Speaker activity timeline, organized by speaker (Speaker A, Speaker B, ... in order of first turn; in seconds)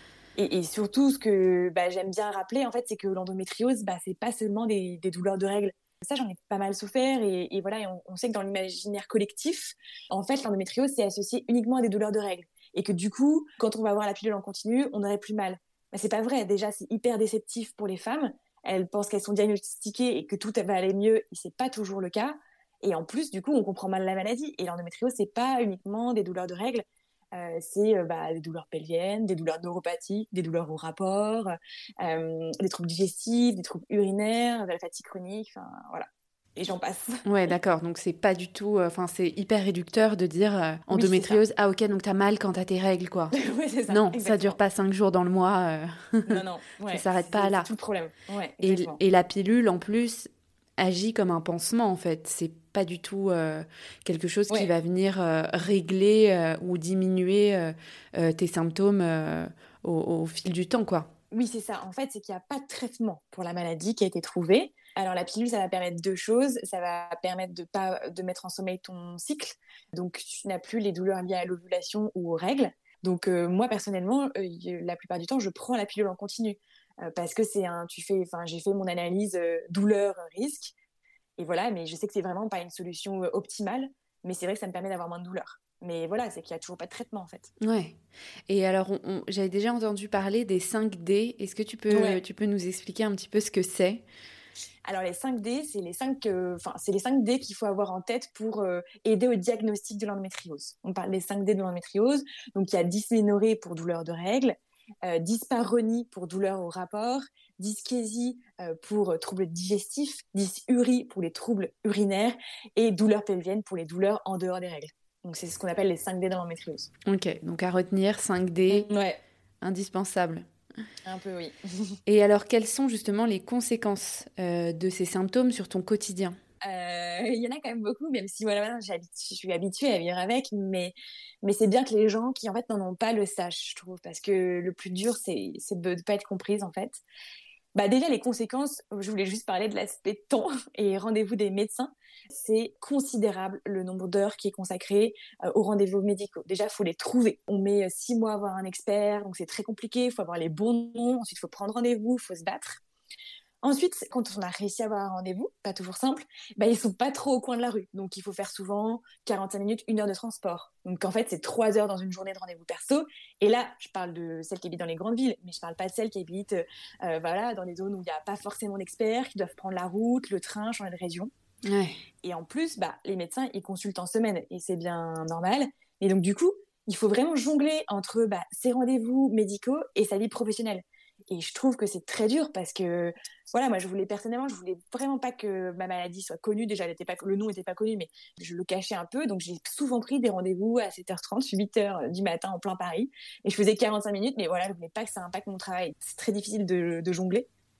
Speaker A: 0.4-37.2, 40.9-41.4, 43.3-44.6, 46.3-49.0, 61.3-80.7, 81.4-87.5, 91.9-92.2, 94.8-116.9, 118.7-119.2, 121.0-122.0, 126.6-137.0, 137.7-152.8, 153.6-171.3, 172.2-197.5
Speaker B: 37.2-43.3, 43.9-47.7, 48.6-61.1, 87.6-87.9, 88.5-94.0, 117.0-118.9, 119.6-120.5, 122.0-126.4, 171.6-172.0